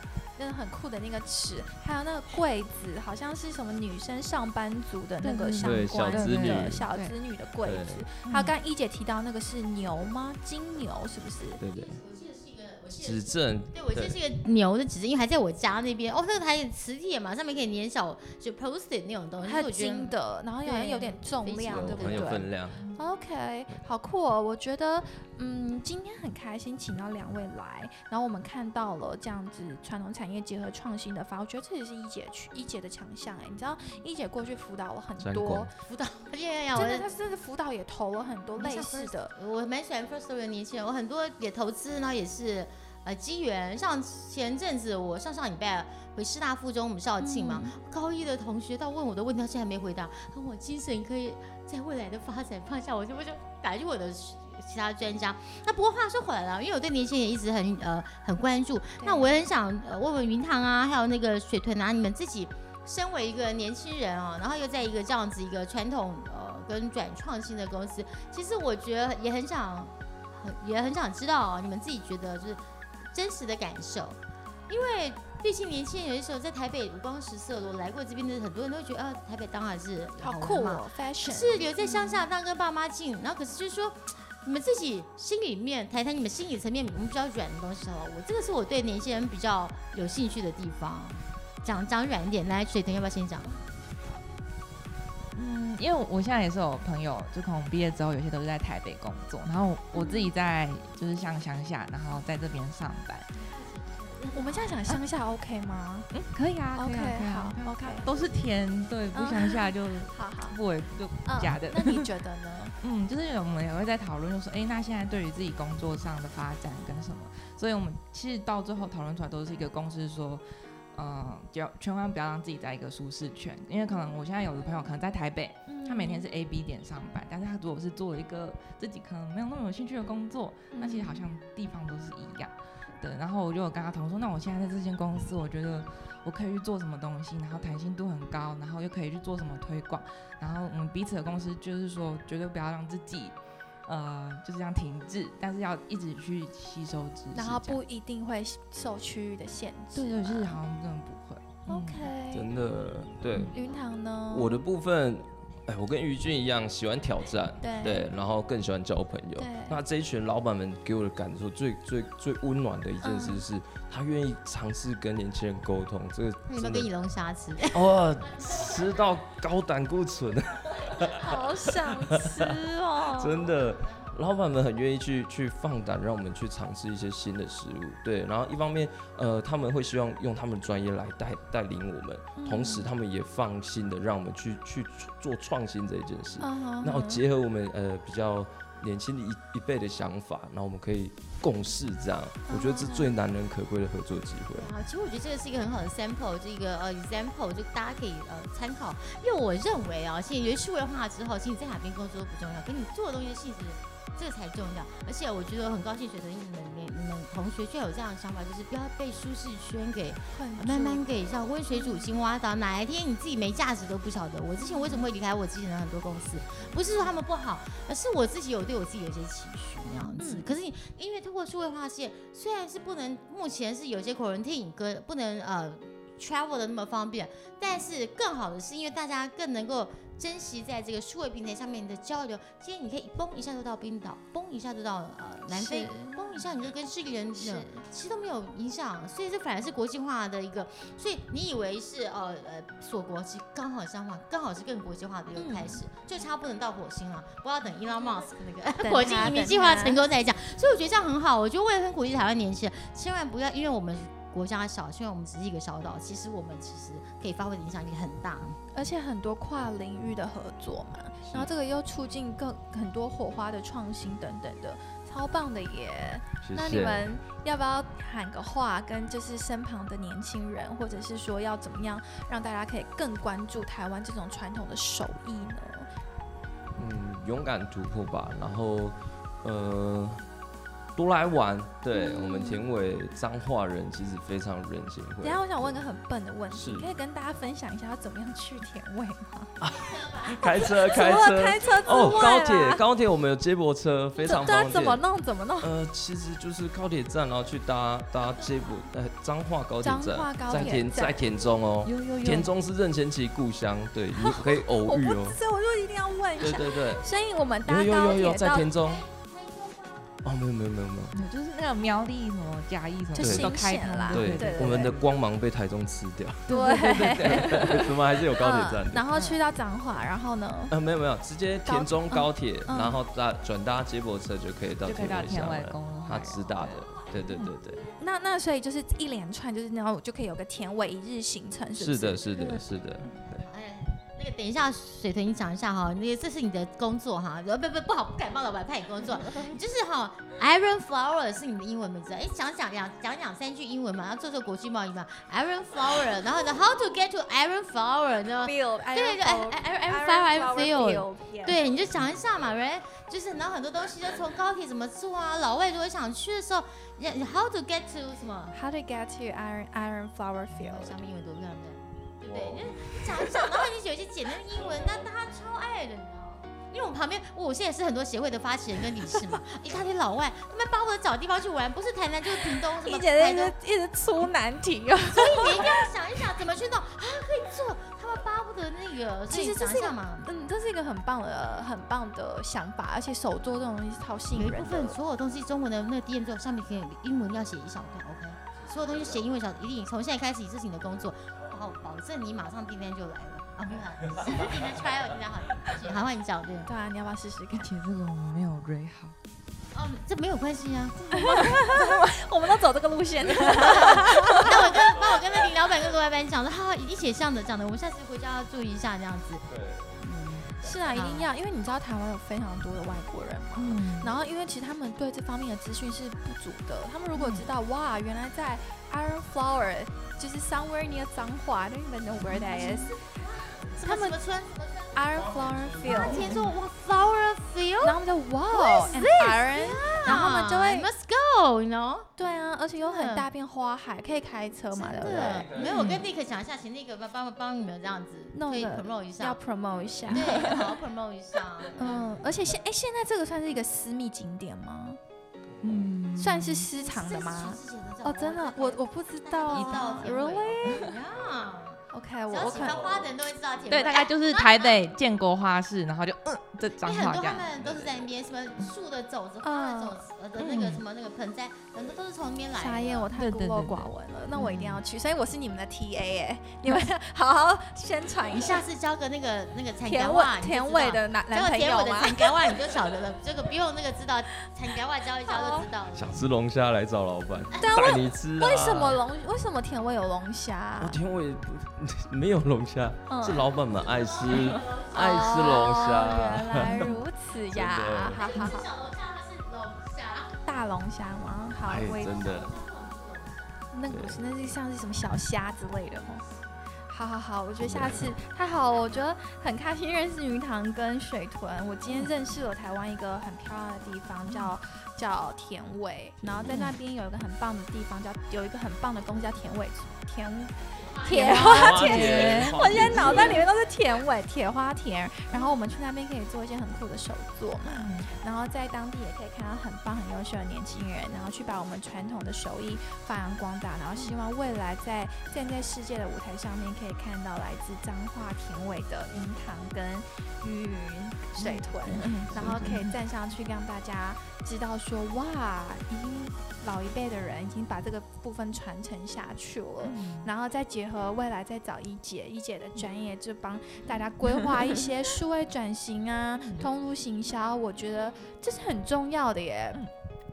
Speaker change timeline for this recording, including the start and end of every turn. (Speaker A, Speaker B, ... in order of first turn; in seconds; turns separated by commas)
Speaker A: 0.4-11.6, Speaker B: 5.2-7.2, Speaker C: 5.6-6.8, Speaker C: 7.6-8.0, Speaker B: 8.2-8.5, Speaker C: 11.6-12.0, Speaker D: 11.7-20.1, Speaker C: 13.0-14.2, Speaker A: 19.4-35.7, Speaker D: 20.6-22.9, Speaker C: 21.7-22.8, Speaker C: 35.2-35.7, Speaker D: 35.8-37.1, Speaker A: 36.7-39.3, Speaker D: 38.6-93.6, Speaker A: 47.2-47.7, Speaker A: 59.0-59.5, Speaker A: 80.2-82.3, Speaker B: 95.3-103.3, Speaker A: 99.9-100.3, Speaker D: 103.3-104.8, Speaker A: 104.3-106.1, Speaker B: 106.1-112.1, Speaker A: 106.8-108.1, Speaker D: 108.0-108.3, Speaker A: 109.1-110.6, Speaker A: 111.2-112.8, Speaker B: 112.8-147.8, Speaker A: 125.7-126.2, Speaker A: 130.7-131.2, Speaker A: 147.3-150.6, Speaker B: 149.9-152.1, Speaker A: 151.7-152.4, Speaker C: 152.3-153.6, Speaker A: 153.5-154.6, Speaker C: 154.3-166.9, Speaker A: 157.6-158.1, Speaker A: 159.4-159.8, Speaker A: 163.0-163.4, Speaker D: 166.5-169.0, Speaker C: 167.7-194.7, Speaker A: 171.2-173.4, Speaker D: 173.4-174.2, Speaker A: 182.4-182.9, Speaker A: 186.4-187.2, Speaker A: 192.5-193.2, Speaker D: 194.5-258.6, Speaker A: 210.3-212.1, Speaker A: 214.6-215.1, Speaker A: 220.2-220.5, Speaker A: 235.5-236.3, Speaker A: 237.3-237.8, Speaker A: 245.3-245.8, Speaker A: 248.8-250.0, Speaker A: 258.7-275.9, Speaker C: 261.2-261.5, Speaker C: 266.4-267.1, Speaker C: 276.8-280.2, Speaker C: 280.9-285.8, Speaker A: 281.9-282.6, Speaker A: 285.2-289.6, Speaker C: 286.5-286.9, Speaker C: 289.6-295.0, Speaker D: 289.7-290.9, Speaker A: 290.5-292.8, Speaker D: 291.9-292.2, Speaker A: 294.2-295.7, Speaker C: 295.6-305.4, Speaker D: 298.3-298.9, Speaker A: 299.8-301.3, Speaker B: 300.5-300.8, Speaker B: 301.8-302.5, Speaker A: 304.1-308.7, Speaker C: 306.4-307.0, Speaker D: 306.4-307.1, Speaker C: 307.6-309.1, Speaker D: 308.4-310.1, Speaker C: 310.2-311.1, Speaker B: 311.1-315.1, Speaker A: 313.1-315.0, Speaker C: 313.2-313.5, Speaker C: 314.1-319.1, Speaker A: 316.5-320.7, Speaker B: 316.5-317.9, Speaker B: 319.1-319.4, Speaker C: 320.7-327.8, Speaker A: 321.6-323.0, Speaker B: 324.8-326.9, Speaker D: 326.6-327.9, Speaker A: 327.3-332.6, Speaker C: 331.8-333.4, Speaker D: 333.1-358.6, Speaker A: 339.0-339.6, Speaker A: 348.4-351.6, Speaker C: 351.8-352.2, Speaker A: 358.5-360.9, Speaker D: 360.5-373.5, Speaker C: 362.3-363.0, Speaker C: 364.6-365.1, Speaker A: 369.1-369.4, Speaker A: 372.3-375.9, Speaker D: 375.1-380.3, Speaker A: 379.3-385.0, Speaker D: 384.3-396.7, Speaker C: 388.6-389.3, Speaker C: 394.1-394.8, Speaker A: 396.6-397.7, Speaker B: 397.5-399.1, Speaker D: 399.7-401.5, Speaker A: 401.1-404.9, Speaker B: 401.4-401.9, Speaker D: 403.4-409.4, Speaker C: 404.7-405.5, Speaker C: 409.5-410.0, Speaker D: 410.0-411.3, Speaker A: 410.6-422.9, Speaker B: 413.6-414.1, Speaker B: 417.1-417.5, Speaker B: 422.3-422.9, Speaker D: 422.5-425.0, Speaker A: 423.8-424.2, Speaker A: 424.9-426.3, Speaker C: 425.1-426.4, Speaker D: 425.9-428.0, Speaker B: 426.1-426.5, Speaker A: 427.8-430.9, Speaker D: 428.5-432.1, Speaker A: 432.2-435.9, Speaker D: 432.8-433.3, Speaker D: 434.7-439.4, Speaker C: 435.0-436.0, Speaker A: 438.3-440.8, Speaker D: 440.1-442.1, Speaker B: 440.1-440.4, Speaker A: 441.8-445.0, Speaker C: 445.5-446.0, Speaker B: 445.6-446.7, Speaker A: 446.2-450.9, Speaker D: 446.8-454.8, Speaker B: 449.5-450.0, Speaker A: 451.9-452.9, Speaker C: 452.4-453.2, Speaker B: 453.7-457.5, Speaker D: 456.8-463.1, Speaker C: 457.5-458.1, Speaker A: 459.4-460.8, Speaker A: 462.6-468.6, Speaker B: 463.1-464.6, Speaker D: 468.3-476.2, Speaker A: 469.8-472.6, Speaker A: 475.3-475.7, Speaker C: 475.9-479.0, Speaker D: 477.5-477.8, Speaker A: 477.6-481.0, Speaker C: 480.8-486.9, Speaker A: 483.1-483.5, Speaker D: 483.7-485.9, Speaker A: 484.3-488.7, Speaker C: 487.5-488.3, Speaker D: 488.0-490.3, Speaker A: 490.4-492.1, Speaker C: 491.7-492.5, Speaker D: 491.8-493.6, Speaker A: 493.7-496.2, Speaker C: 493.9-494.2, Speaker A: 496.9-549.8, Speaker C: 497.6-498.1, Speaker B: 504.3-504.5, Speaker C: 506.2-506.6, Speaker B: 506.5-506.8, Speaker D: 510.7-511.6, Speaker B: 511.1-513.5, Speaker C: 511.4-513.5, Speaker B: 517.6-518.1, Speaker B: 531.4-532.9, Speaker C: 532.2-532.7, Speaker B: 539.8-540.3, Speaker B: 546.4-546.7